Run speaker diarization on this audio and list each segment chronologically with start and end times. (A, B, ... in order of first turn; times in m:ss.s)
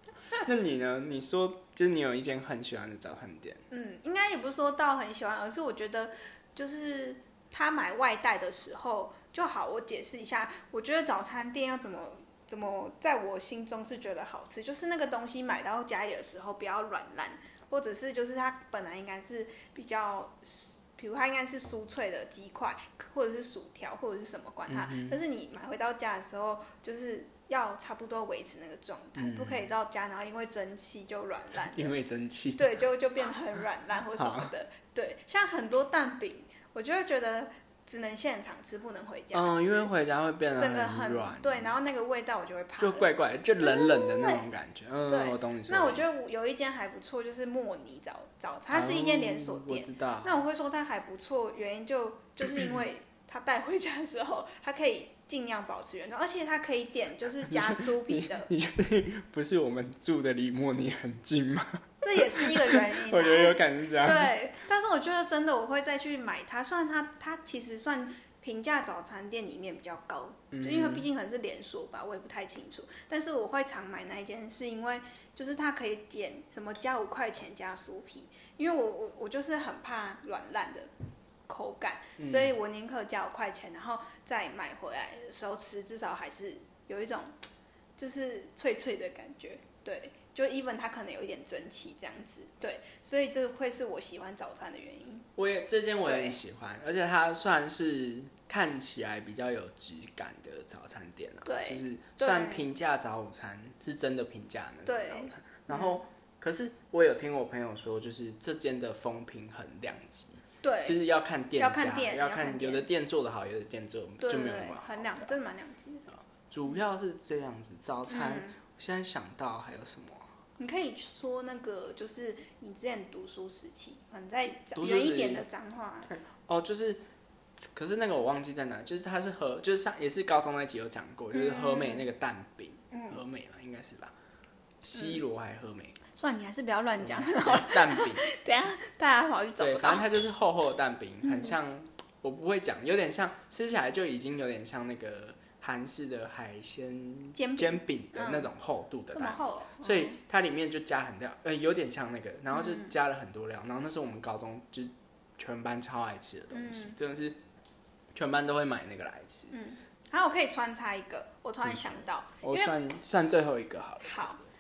0:00.4-0:03.6 A
0:03.7-0:32.0 B
0:24.7-0:25.2 A
0:29.2-0:29.7 A
0:31.6-0:32.8 A
0:32.6-0:39.9 B
0:34.2-0:34.5 A
0:39.3-0:41.7 A
0:40.6-0:44.5 B
0:42.8-0:46.1 A
0:45.1-0:58.5 B
0:48.7-0:50.4 A
0:52.4-0:52.8 A
0:57.4-1:04.3 A
1:02.0-1:20.9 B
1:10.5-1:11.1 A
1:21.5-1:27.4 B
1:22.2-1:22.6 A
1:28.0-1:35.3 B
1:35.4-1:55.3 A
1:36.0-1:36.4 B
1:41.4-1:42.7 B
1:44.8-1:46.0 B
1:50.6-1:51.0 B
1:51.6-1:52.8 B
1:54.2-1:56.0 B
1:56.5-2:00.2 A
1:58.1-1:58.6 B
2:00.6-2:06.1 B
2:04.8-2:05.4 A
2:06.1-2:07.0 A
2:07.7-2:14.1 A
2:11.3-2:12.1 B
2:12.9-2:13.2 B
2:14.8-2:16.0 A
2:14.9-2:15.2 B
2:16.2-2:20.1 B
2:17.0-2:18.2 A
2:19.6-2:37.4 A
2:21.2-2:21.6 B
2:27.4-2:28.5 B
2:29.1-2:30.2 B
2:32.5-2:32.9 B
2:36.5-2:37.0 B
2:38.1-2:39.5 A
2:39.5-2:42.8 B
2:42.4-2:44.2 A
2:44.0-2:44.4 B